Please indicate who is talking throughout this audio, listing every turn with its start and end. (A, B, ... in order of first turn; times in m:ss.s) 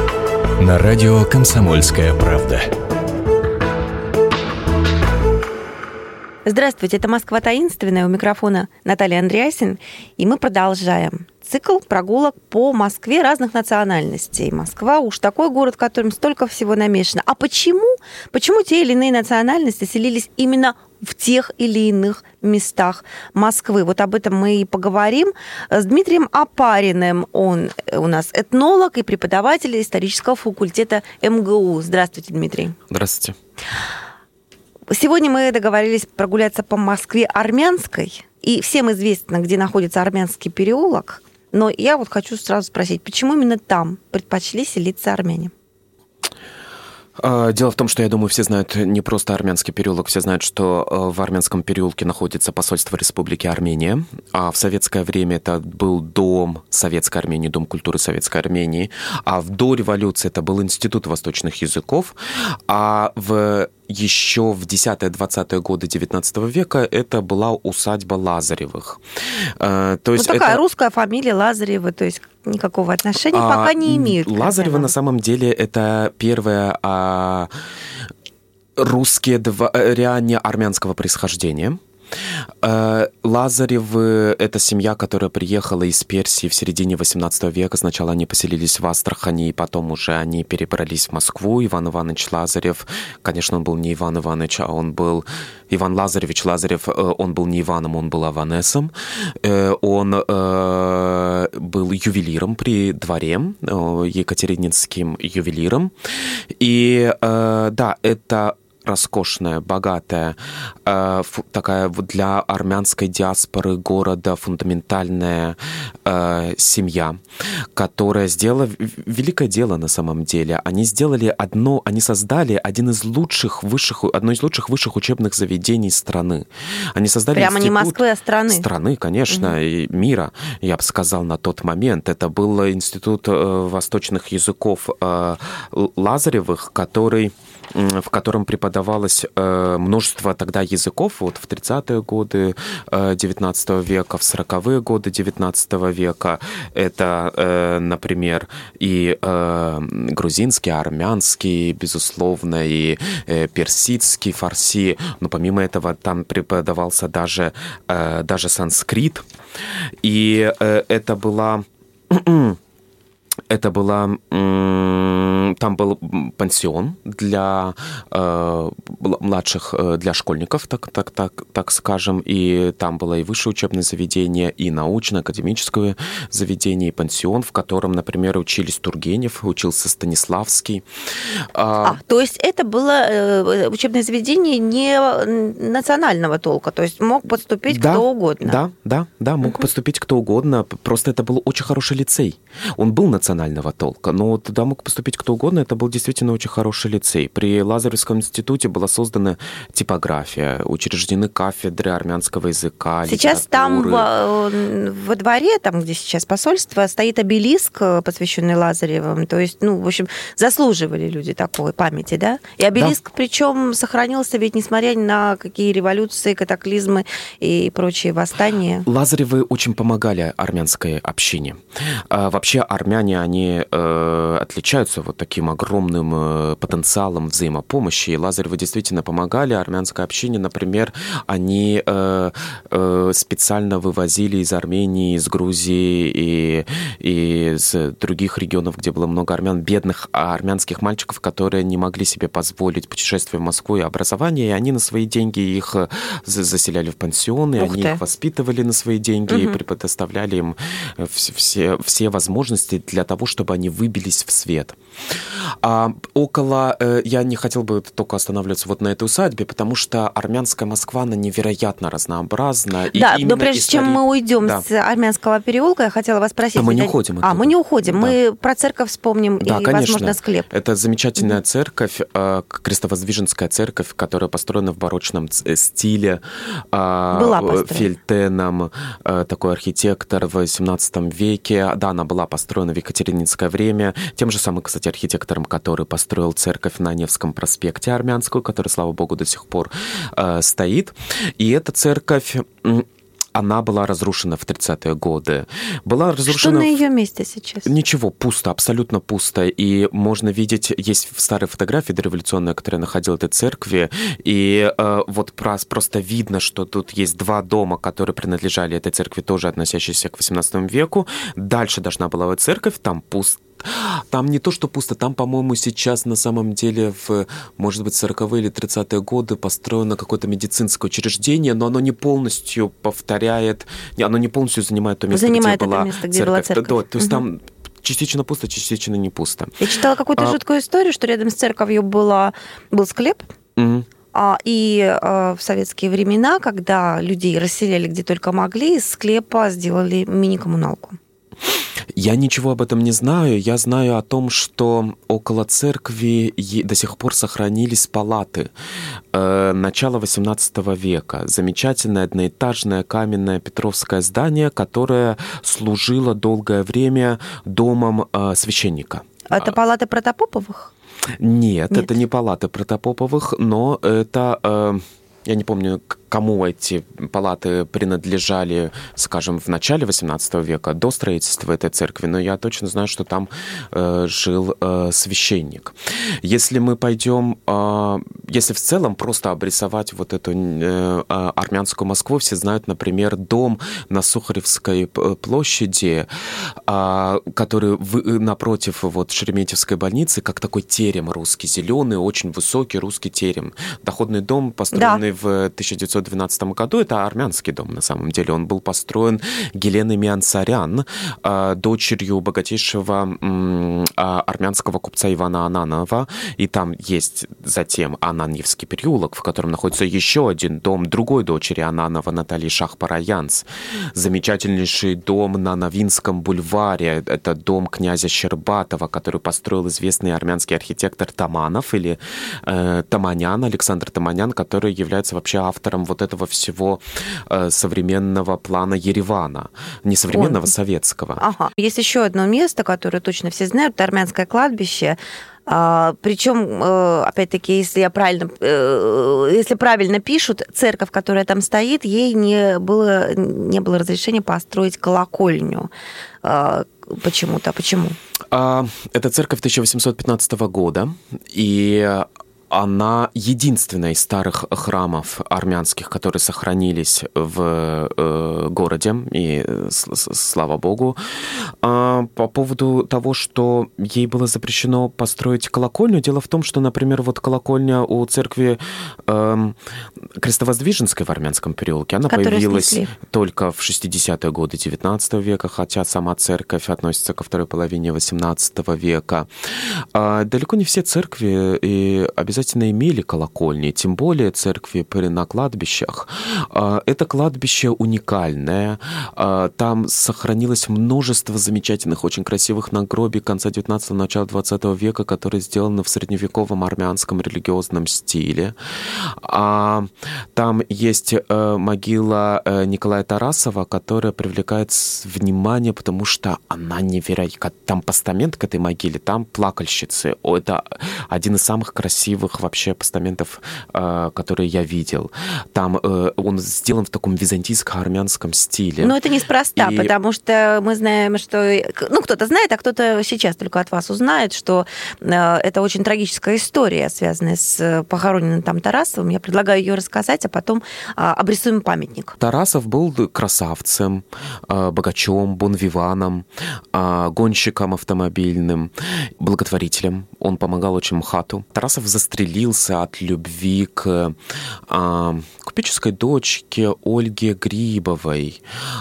0:00.6-0:02.7 A
0:06.4-0:32.8 B
0:32.9-0:33.4 C
0:34.9-0:45.5 B
0:47.2-1:02.2 C
1:02.7-1:09.0 C
1:09.6-1:10.6 C
1:10.2-1:14.9 B
1:13.3-1:17.5 C
1:18.8-1:21.8 C
1:22.6-1:45.9 C
1:46.6-1:57.2 C
1:57.8-2:39.3 C
2:07.4-2:08.7 B
2:40.0-2:42.6 C
2:43.5-3:00.8 C
3:01.5-3:02.0 C
3:01.8-3:08.6 B
3:07.7-3:24.1 C
3:23.0-3:38.9 B
3:38.9-3:41.6 C
3:42.1-4:14.8 C
4:07.6-4:08.0 B
4:09.3-4:09.6 B
4:15.6-4:24.6 C
4:22.9-4:30.5 B
4:26.6-4:28.2 C
4:29.4-4:56.8 C
4:37.1-4:37.9 B
4:56.3-4:57.7 B
4:57.6-5:29.6 C
5:25.1-5:27.2 B
5:29.6-5:33.3 B
5:33.6-5:33.9 C
5:34.1-5:41.0 B
5:42.0-5:48.5 C
5:49.1-5:59.6 C
5:59.3-6:00.7 B
6:01.2-6:26.1 C
6:26.7-7:11.2 C
6:34.7-6:35.0 B
7:10.1-7:10.5 B
7:11.2-7:25.7 B
7:26.2-7:28.0 B
7:28.3-7:41.0 C
7:41.6-7:49.6 C
7:50.2-7:59.3 C
7:52.1-7:52.9 B
7:59.9-8:39.0 C
8:38.8-8:52.2 B
8:39.6-8:40.0 C
8:52.2-9:04.2 C
9:04.7-9:08.4 C